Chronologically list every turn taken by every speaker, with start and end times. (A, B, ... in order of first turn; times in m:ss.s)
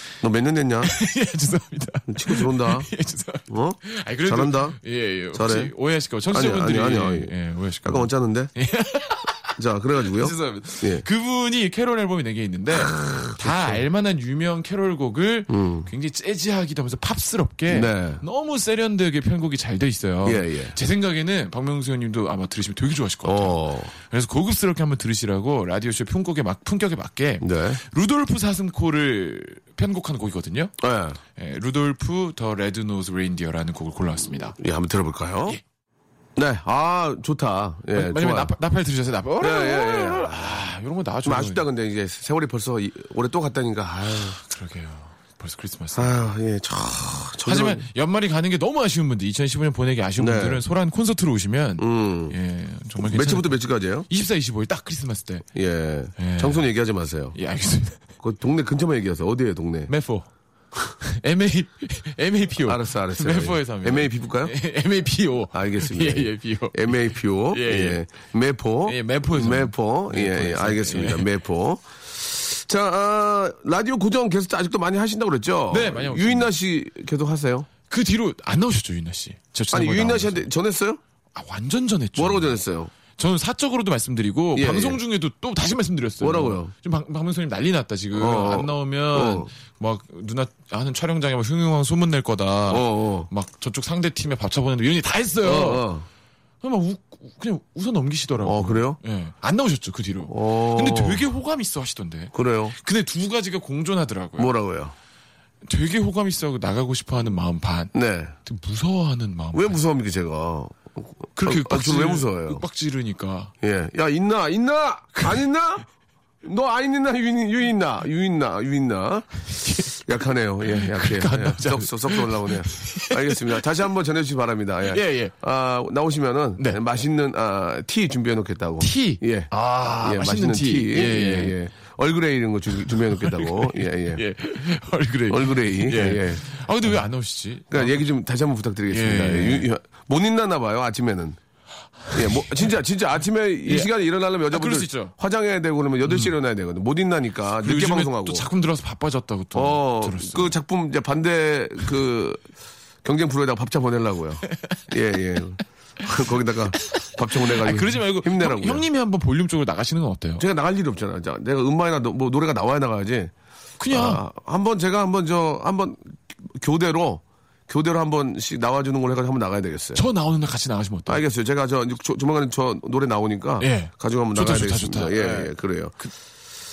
0:00.2-0:01.0 A
0:00.8-0:09.5 B
0:02.1-0:02.9 A
0:03.5-0:04.8 A
0:05.3-0:05.7 A
0:06.3-0:07.3 A
0:07.8-0:08.5 A
0:09.6-0:11.0 A
0:10.1-0:30.7 B
0:12.7-0:13.8 A
0:15.5-0:15.9 A
0:17.7-0:18.2 A
0:20.2-0:20.8 A
0:23.2-0:23.9 A
0:27.4-0:27.8 A
0:30.8-0:31.2 A
0:31.3-0:34.6 B
0:34.5-0:35.6 A
0:36.4-0:38.5 A
0:37.9-0:41.6 B
0:39.4-0:40.6 A
0:41.2-0:44.4 A
0:44.4-0:46.1 B
0:45.9-0:47.8 A
0:47.4-0:55.5 B
0:50.2-0:50.6 A
0:51.8-0:52.3 A
0:53.0-0:54.1 A
0:55.5-0:57.4 A
0:56.2-0:56.7 B
0:57.3-0:58.0 B
0:58.2-0:59.9 A
0:59.9-1:00.3 B
1:00.8-1:08.0 B
1:02.6-1:04.6 A
1:05.5-1:17.7 A
1:08.8-1:11.3 B
1:15.7-1:16.5 B
1:17.9-1:20.5 B
1:19.7-1:21.0 A
1:21.3-1:22.6 B
1:22.2-1:22.9 A
1:23.2-1:35.9 B
1:24.5-1:25.0 A
1:26.2-1:26.7 A
1:28.1-1:29.5 A
1:32.7-1:33.3 A
1:35.4-1:36.1 A
1:36.6-1:44.5 B
1:38.4-1:39.0 A
1:40.3-1:41.2 A
1:42.3-1:42.7 A
1:44.4-1:44.9 A
1:45.6-1:47.9 B
1:47.9-1:48.3 A
1:48.4-1:49.8 B
1:49.5-1:52.6 A
1:51.4-1:53.5 B
1:53.6-1:55.8 A
1:55.2-1:55.4 B
1:56.4-2:14.2 A
1:59.5-1:59.9 B
2:00.7-2:03.6 B
2:04.9-2:05.3 B
2:08.8-2:11.6 B
2:12.9-2:18.0 B
2:15.3-2:16.5 A
2:17.7-2:21.4 A
2:18.9-2:19.7 B
2:22.1-2:22.5 B
2:22.1-2:28.5 A
2:24.5-2:25.1 B
2:26.0-2:26.3 B
2:27.6-2:30.5 B
2:29.5-2:32.4 A
2:33.0-2:38.8 A
2:34.5-2:34.8 B
2:36.9-2:40.4 B
2:40.4-2:43.3 A
2:43.8-2:44.2 B
2:43.9-2:50.0 A
2:49.9-2:51.2 B
2:51.1-2:55.9 A
2:53.6-2:56.1 B